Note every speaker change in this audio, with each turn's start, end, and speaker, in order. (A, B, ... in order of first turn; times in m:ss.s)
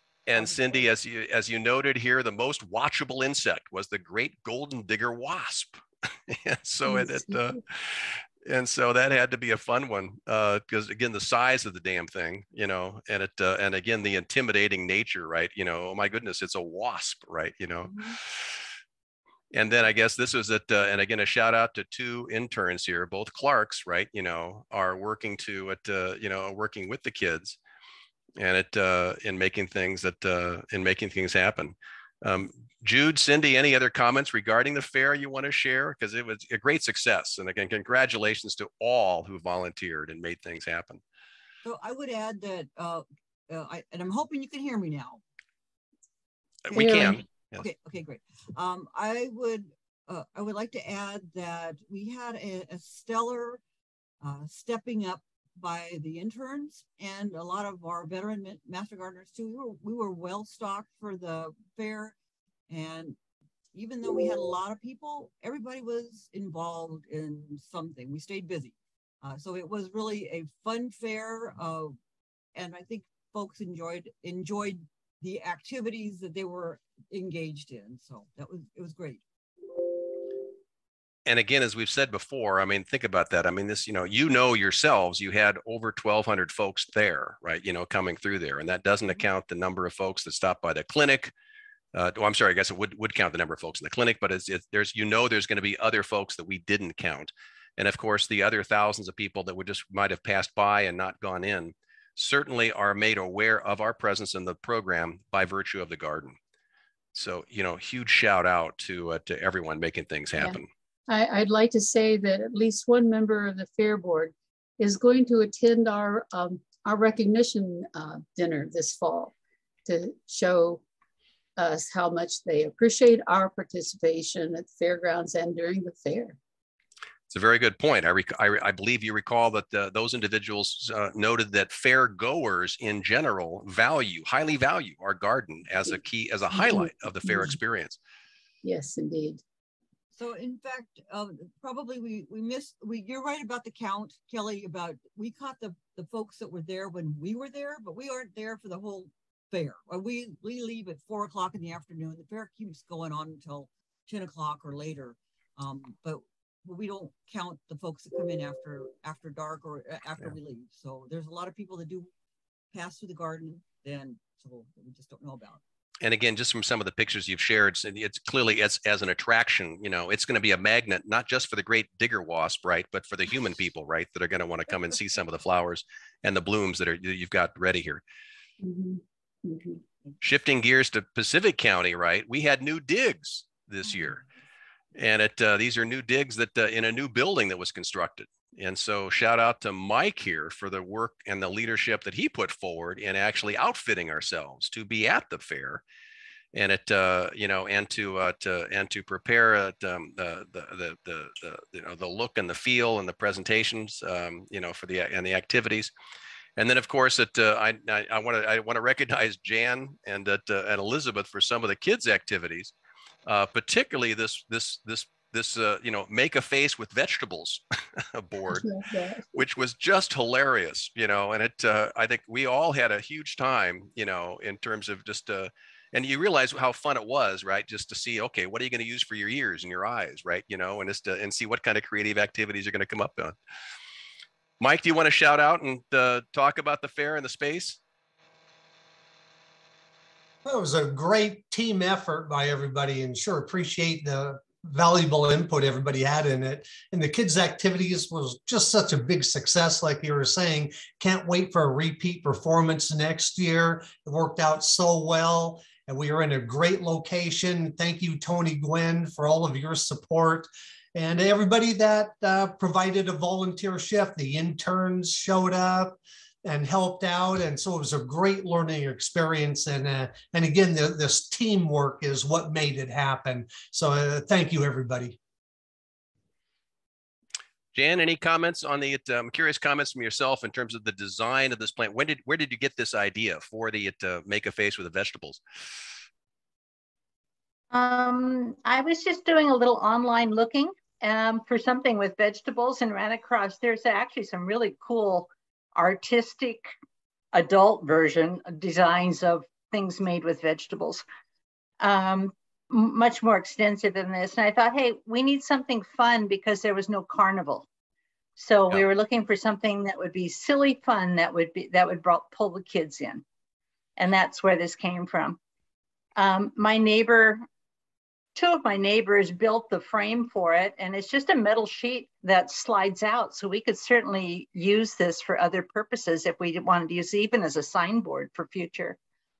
0:00.3-0:18.0 A
0:19.5-0:27.6 A
0:28.4-0:41.0 A
0:41.6-0:45.2 B
0:46.7-0:47.6 A
0:46.7-0:53.6 B
0:54.2-1:02.1 B
1:02.7-1:03.2 B
1:03.7-1:12.0 B
1:12.6-1:19.2 B
1:21.3-1:31.3 A
1:31.9-1:46.4 A
1:47.1-1:50.7 A
1:50.4-1:59.3 C
1:59.8-2:00.8 C
2:01.6-2:06.4 C
2:07.3-2:18.0 A
2:16.5-2:17.6 C
2:18.6-2:19.4 C
2:20.2-2:42.1 B
2:42.7-2:45.6 B
2:46.0-2:58.0 A
2:58.6-2:59.8 C
3:00.2-3:04.2 A
3:05.0-3:15.8 A
3:16.5-3:25.9 A
3:26.6-3:32.7 A
3:33.2-3:38.7 A
3:39.3-3:53.4 A
3:54.6-3:57.8 A
4:00.4-4:35.2 D
4:37.7-4:45.4 A
4:47.7-4:56.7 E
4:57.3-5:01.0 E
5:01.8-5:07.7 E
5:08.4-5:13.2 E
5:14.0-5:15.4 E
5:16.2-5:17.4 E
5:18.4-5:29.0 E